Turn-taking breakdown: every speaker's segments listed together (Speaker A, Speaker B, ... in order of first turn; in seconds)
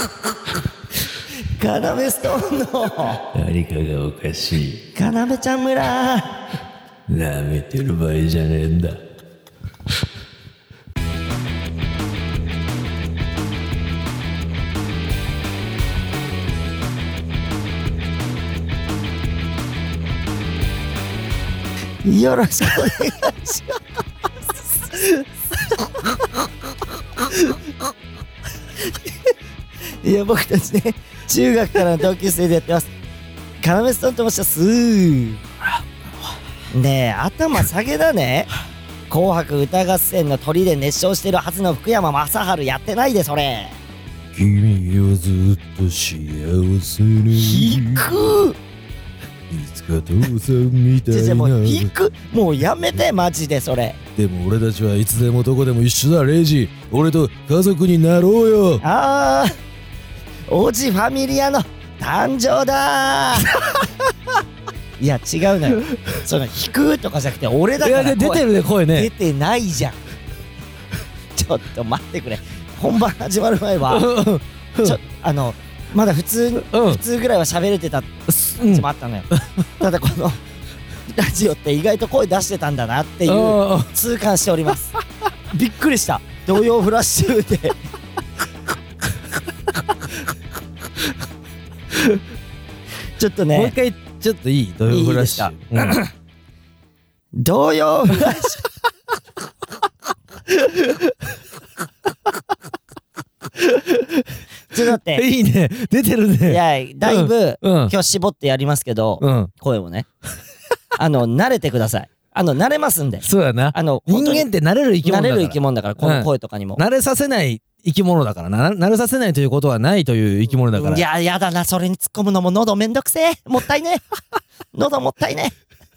Speaker A: 1.4-3.2, 4.9-6.4, 22.0-23.8, 30.0-32.9, 33.6-35.4, 36.7-38.5, 39.1-43.8, 47.3-48.6, 51.1-54.0, 58.8-59.5, 60.5-63.6, 65.0-70.0, 71.3-74.1, 74.8-80.4, 81.1-84.9, 85.5-87.8, 93.2-93.7, 94.9-96.1, 97.3-98.6, 104.7-105.2, 106.5-110.1, 111.0-114.5, 115.0-116.8, 120.7-124.0, 124.7-125.5
Speaker B: 3.3-4.8, 7.1-9.0, 44.3-48.3, 49.5-51.9, 54.2-58.8, 67.8-69.1, 73.9-75.0, 76.6-77.0, 78.3-79.7, 83.2-84.0, 91.9-92.2, 93.5-96.0, 100.5-101.3, 103.5-104.4, 105.1-107.9, 109.2-109.5, 113.2-121.0